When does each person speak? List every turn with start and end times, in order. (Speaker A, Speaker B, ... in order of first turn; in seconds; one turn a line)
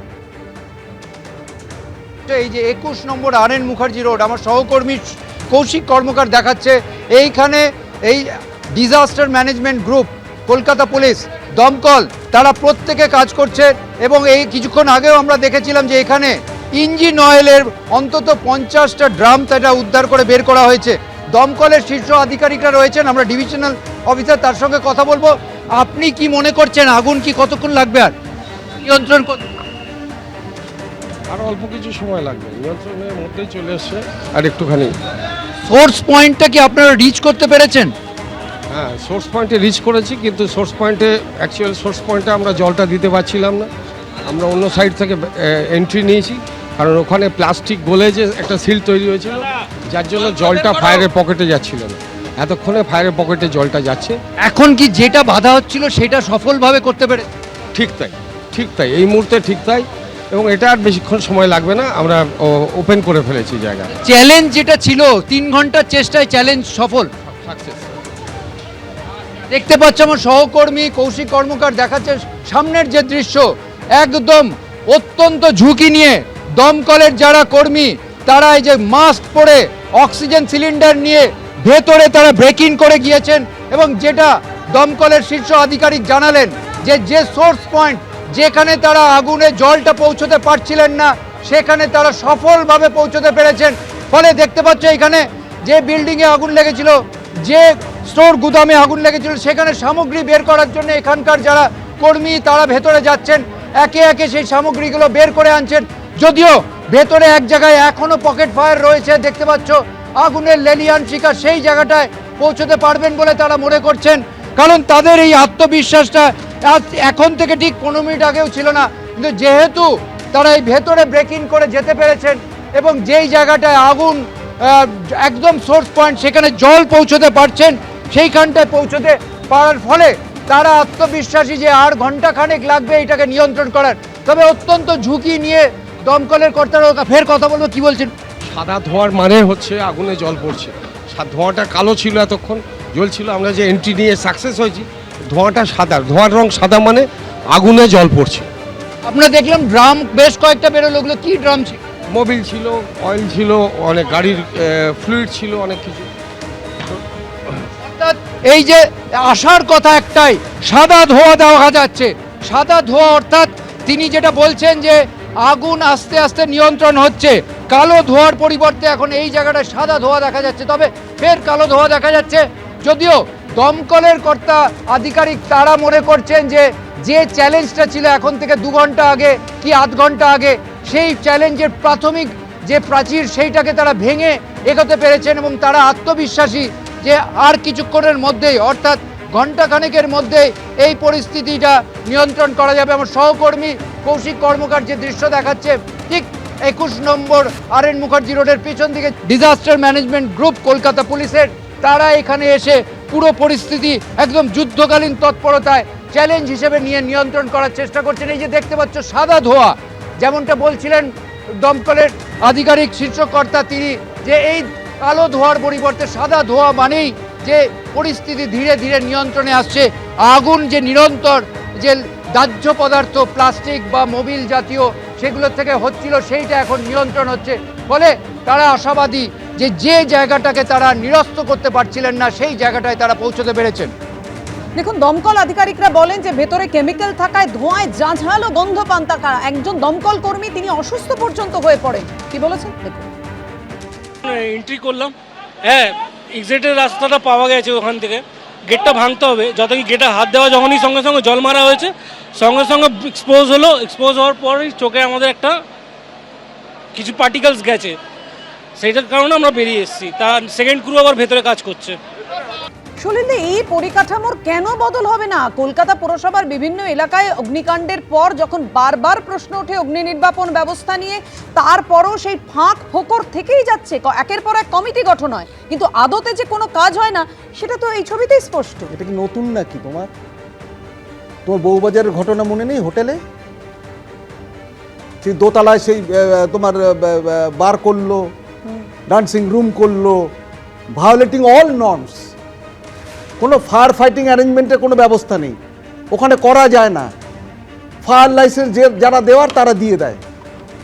Speaker A: 2.3-28.1
Speaker A: 28.8-29.4
Speaker B: 31.3-34.9
Speaker A: 35.7-37.9
Speaker B: 38.7-43.7
Speaker B: 44.3-54.2
Speaker A: 54.4-57.3
Speaker B: 57.7-63.9
Speaker A: 64.0-67.1
Speaker B: 67.4-67.8
Speaker A: 69.5-138.1
Speaker B: 138.4-148.5
Speaker A: 149.0-151.8
Speaker B: 152.1-156.1
Speaker A: 157.8-233.9
Speaker C: 234.7-243.1
Speaker D: 244.2-255.6
Speaker D: 256.9-258.0
Speaker D: 258.8-262.0
Speaker C: 263.0-278.9
Speaker E: 278.9-280.1
Speaker E: 281.5-283.2
Speaker E: 285.2-288.3
Speaker E: 289.1-290.2
Speaker E: 290.9-292.3
Speaker E: 293.4-295.6
Speaker E: 296.1-297.1
Speaker E: 298.0-300.2